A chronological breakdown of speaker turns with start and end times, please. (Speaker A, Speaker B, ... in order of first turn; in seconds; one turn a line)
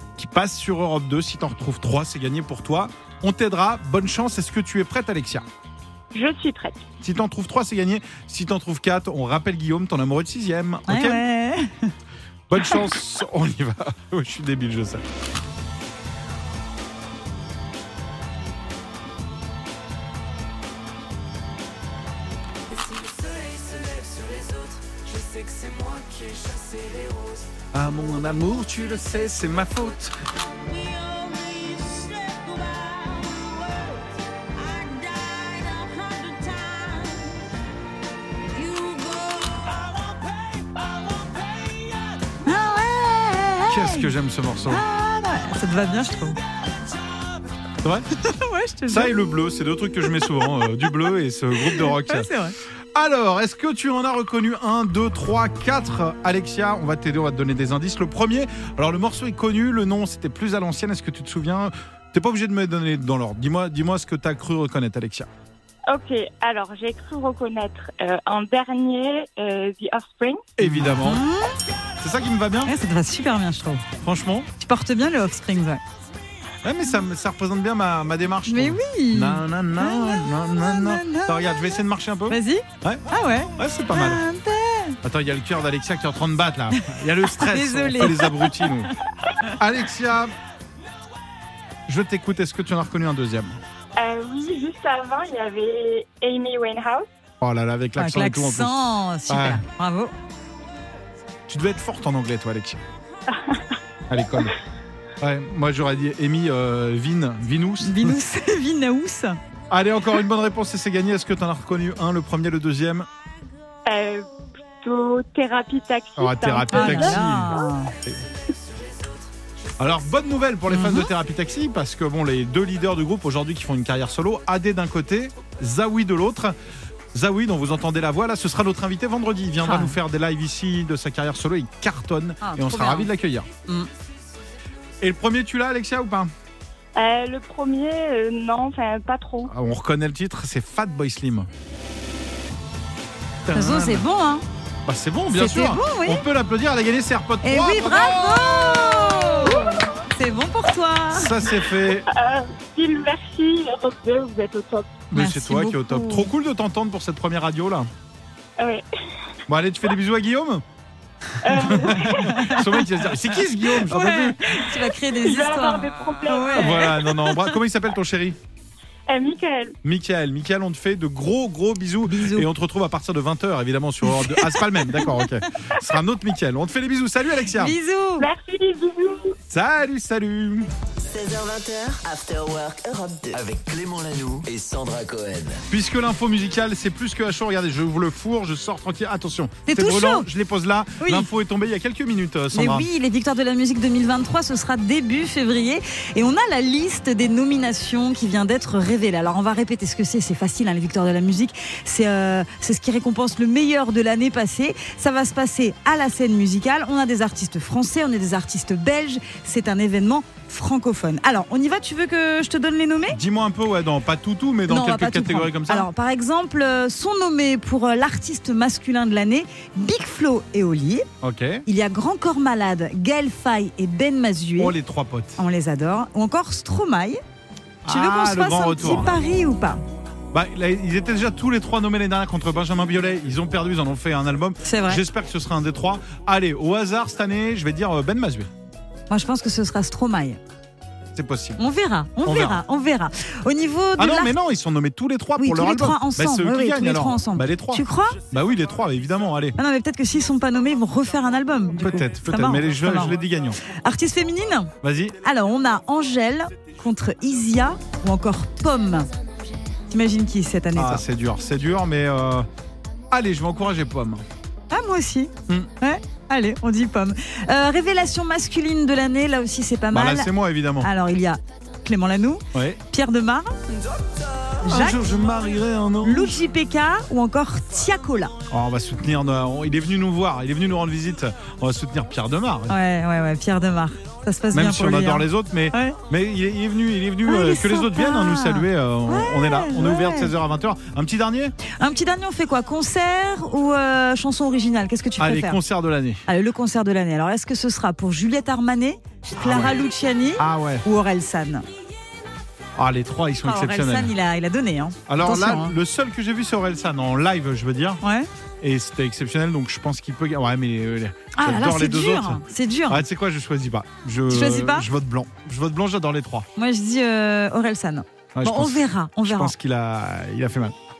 Speaker A: 0.2-5.4
Speaker B: 6.1-6.8
Speaker A: 7.0-11.2
Speaker C: 10.9-11.9
Speaker A: 12.5-15.0
Speaker A: 27.7-30.1
Speaker C: 42.4-44.1
Speaker A: 43.7-44.8
Speaker C: 44.7-46.4
Speaker C: 48.2-49.1
Speaker A: 48.9-52.3
Speaker C: 50.0-50.7
Speaker C: 51.6-52.5
Speaker A: 52.9-65.3
Speaker B: 65.9-70.4
Speaker A: 70.6-71.2
Speaker C: 70.7-71.6
Speaker A: 72.0-72.7
Speaker C: 72.6-73.8
Speaker A: 74.0-74.5
Speaker C: 74.6-75.8
Speaker A: 76.6-83.0
Speaker C: 78.5-81.7
Speaker C: 82.3-85.0
Speaker A: 83.6-84.2
Speaker A: 85.0-88.9
Speaker C: 87.5-88.9
Speaker A: 89.6-90.3
Speaker A: 91.9-93.5
Speaker B: 94.0-97.0
Speaker A: 97.4-99.6
Speaker C: 98.0-100.1
Speaker A: 101.5-102.8
Speaker B: 103.3-103.6
Speaker A: 104.1-104.5
Speaker A: 105.2-108.2
Speaker C: 107.8-109.4
Speaker A: 109.7-113.1
Speaker B: 113.8-114.2
Speaker B: 114.8-117.6
Speaker A: 116.2-118.2
Speaker C: 116.7-117.9
Speaker A: 119.8-126.5
Speaker C: 120.7-121.1
Speaker A: 127.1-133.5
Speaker C: 129.6-129.9
Speaker C: 132.4-133.1
Speaker A: 135.0-136.3
Speaker B: 136.9-139.5
Speaker A: 139.5-141.5
Speaker A: 143.4-144.0
Speaker C: 143.5-144.4
Speaker A: 144.8-148.9
Speaker C: 145.3-146.2
Speaker C: 147.4-151.3
Speaker B: 149.4-149.8
Speaker A: 151.1-152.1
Speaker B: 152.1-155.0
Speaker A: 155.1-157.9
Speaker C: 155.1-156.3
Speaker A: 159.5-160.6
Speaker B: 161.4-162.4
Speaker A: 161.6-164.4
Speaker C: 162.3-162.7
Speaker C: 163.8-167.1
Speaker B: 165.2-166.9
Speaker A: 166.5-168.4
Speaker B: 169.1-169.7
Speaker A: 169.8-177.8
Speaker C: 172.1-172.5
Speaker C: 177.5-178.3
Speaker B: 178.2-179.3
Speaker A: 179.5-180.7
Speaker D: 181.0-183.4
Speaker E: 183.3-185.6
Speaker A: 185.7-192.9
Speaker C: 189.7-190.3
Speaker C: 191.0-191.3
Speaker C: 192.5-213.2
Speaker A: 213.1-215.9
Speaker C: 214.7-221.1
Speaker A: 221.2-221.6
Speaker C: 221.7-224.7
Speaker A: 224.6-225.4
Speaker C: 225.3-227.2
Speaker A: 227.8-229.1
Speaker C: 227.9-229.8
Speaker A: 230.3-238.5
Speaker C: 234.7-235.0
Speaker C: 239.1-240.4
Speaker A: 241.1-241.6
Speaker C: 241.6-244.3
Speaker A: 242.2-242.6
Speaker A: 244.0-249.6
Speaker C: 245.4-248.2
Speaker C: 249.6-253.2
Speaker A: 251.8-253.6
Speaker C: 253.7-259.1
Speaker A: 254.8-255.2
Speaker C: 259.9-261.0
Speaker A: 260.7-262.5
Speaker A: 263.1-264.2
Speaker C: 264.7-273.6
Speaker A: 269.9-270.9
Speaker A: 272.5-272.8
Speaker A: 274.6-276.4
Speaker C: 274.6-275.2
Speaker C: 276.0-278.3
Speaker A: 278.5-282.8
Speaker C: 282.7-286.0
Speaker A: 284.5-291.5
Speaker C: 287.2-290.3
Speaker C: 291.8-295.6
Speaker A: 295.2-296.2
Speaker C: 296.2-301.6
Speaker A: 299.4-299.8
Speaker A: 300.4-300.8
Speaker A: 302.8-304.1
Speaker C: 303.4-305.8
Speaker A: 305.1-308.0
Speaker A: 308.6-316.4
Speaker C: 311.3-313.0
Speaker C: 314.3-314.9
Speaker C: 316.6-319.5
Speaker A: 318.3-320.7